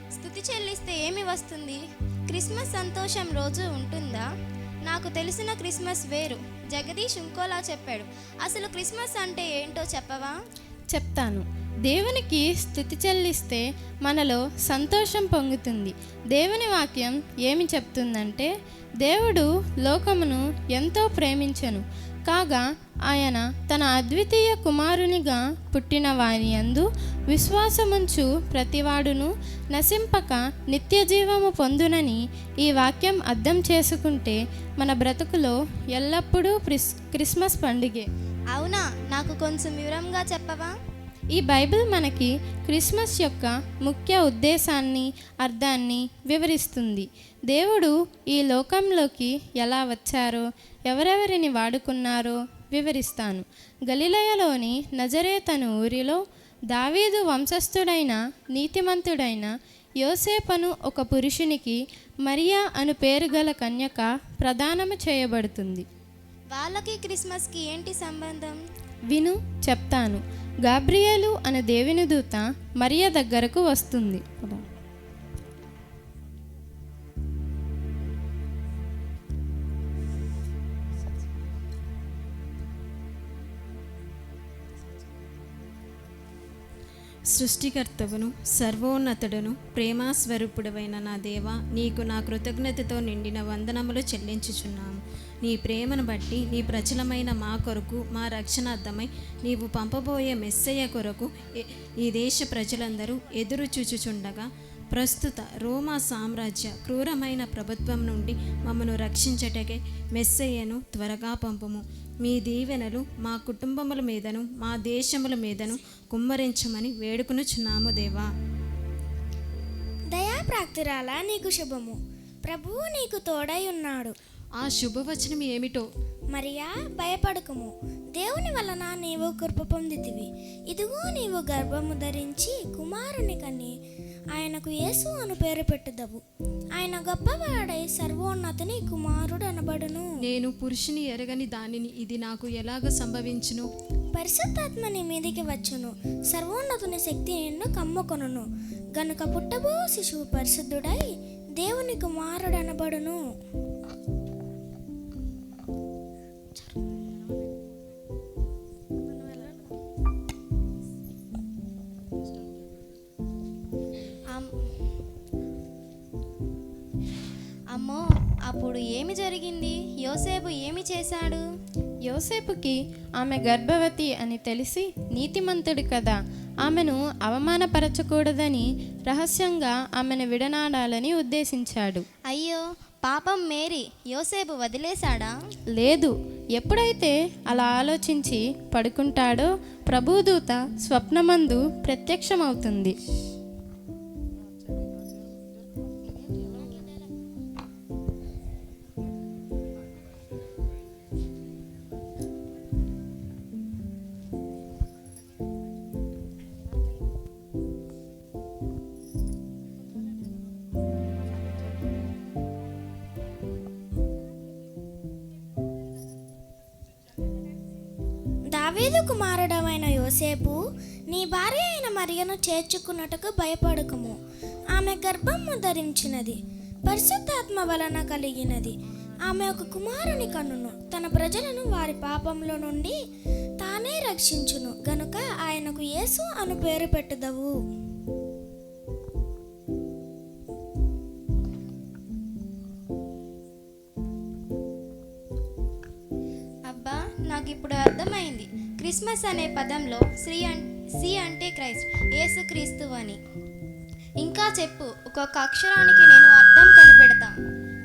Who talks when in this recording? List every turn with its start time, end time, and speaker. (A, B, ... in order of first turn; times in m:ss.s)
0:00.1-0:04.3 A
0:04.9-0:10.3 A
0:10.9-0:38.1 B
0:38.5-0:40.7 A
0:41.3-0:56.2 B
0:56.7-1:05.8 B
1:06.5-1:08.6 A
1:09.1-1:14.6 B
1:27.3-1:58.3 C
2:00.1-2:04.2 D
2:04.6-2:05.9 C
2:06.3-2:13.7 D
2:14.3-2:16.2 D
2:16.8-2:20.1 D
2:20.3-2:23.7 C
2:24.1-2:28.4 D
2:29.0-2:31.0 D
2:31.6-2:33.2 D
2:47.7-2:51.4 A
2:52.1-3:02.1 B
3:02.3-3:05.3 A
3:05.8-3:12.9 B
3:38.5-3:40.6 D
3:41.1-3:44.2 D
3:44.7-3:48.7 D
3:49.3-3:53.0 D
3:53.6-3:57.5 D
4:06.7-4:13.2 A
4:14.2-4:17.3 A